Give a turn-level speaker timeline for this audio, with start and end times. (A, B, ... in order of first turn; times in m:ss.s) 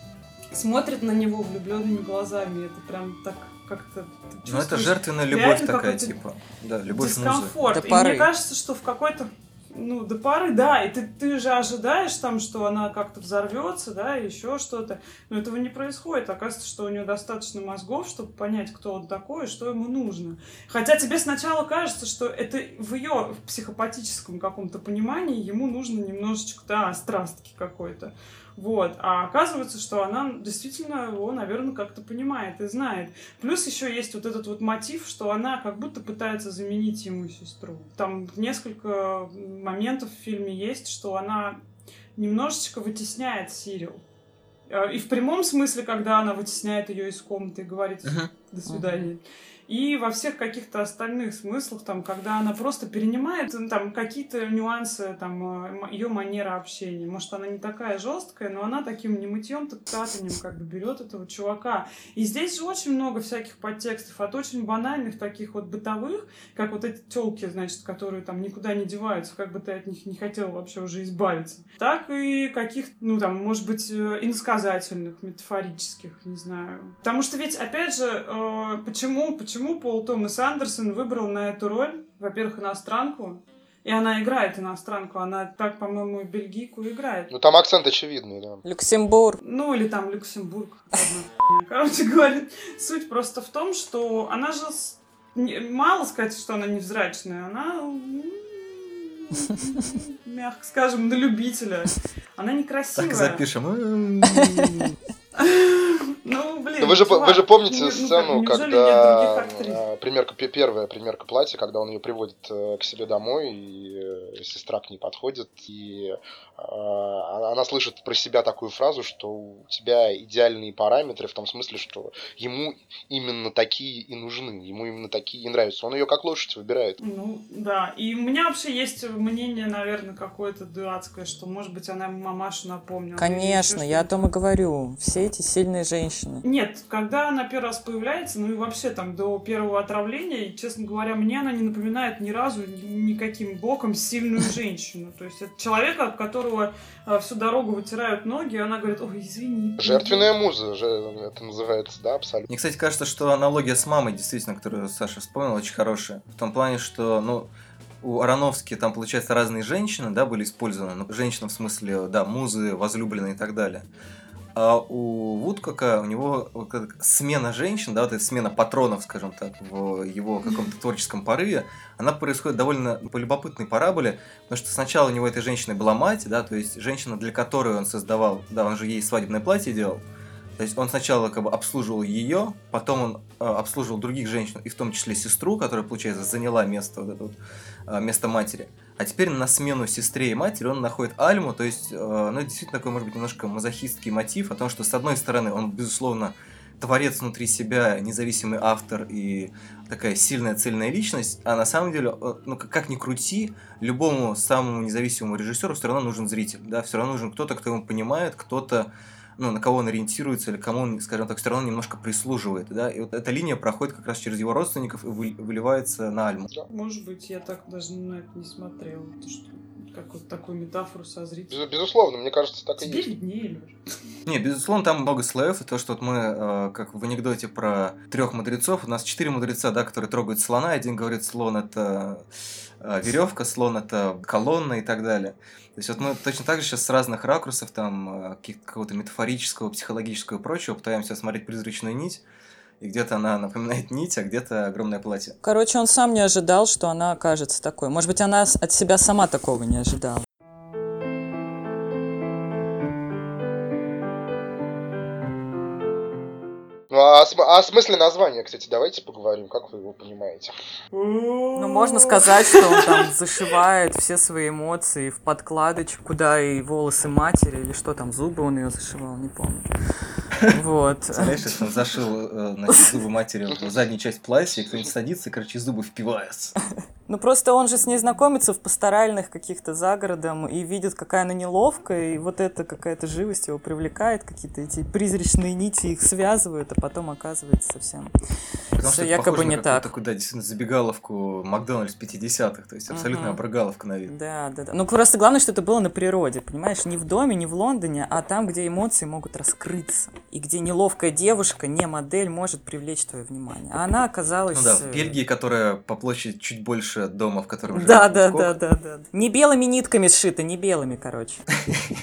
0:00.5-0:06.2 A
0:04.5-0:07.6 B
0:06.9-0:41.6 A
0:07.6-0:08.3 C
0:42.2-0:44.0 A
0:44.7-1:27.3 A
0:48.0-0:48.3 B
0:48.7-0:49.1 C
1:27.3-1:28.6 D
1:28.6-1:29.4 C
1:29.4-1:43.4 A
1:43.0-1:44.9 B
1:45.4-1:49.8 A
1:46.8-2:07.0 D
2:07.0-2:14.1 A
2:13.2-2:16.4 C
2:16.4-2:30.3 A
2:29.8-2:32.5 D
2:32.5-2:37.5 B
2:38.0-2:43.8 B
2:44.6-3:00.0 B
3:00.6-3:07.4 B
3:07.9-3:36.5 B
3:36.7-3:41.6 A
3:41.5-3:43.1 D
3:42.8-3:43.8 A
3:44.3-3:52.2 B
3:52.8-4:02.2 B
4:02.8-4:05.4 B
4:05.4-4:10.2 C
4:16.9-4:20.6 D
4:20.9-4:23.0 A
4:21.6-4:29.7 C
4:30.4-4:31.7 C
4:31.1-4:36.6 B
4:37.1-4:48.1 C
4:48.7-4:54.1 B
4:48.8-4:49.9 C
4:52.9-4:53.4 C
4:54.1-5:05.2 C
5:04.5-5:08.6 B
5:07.7-5:11.5 C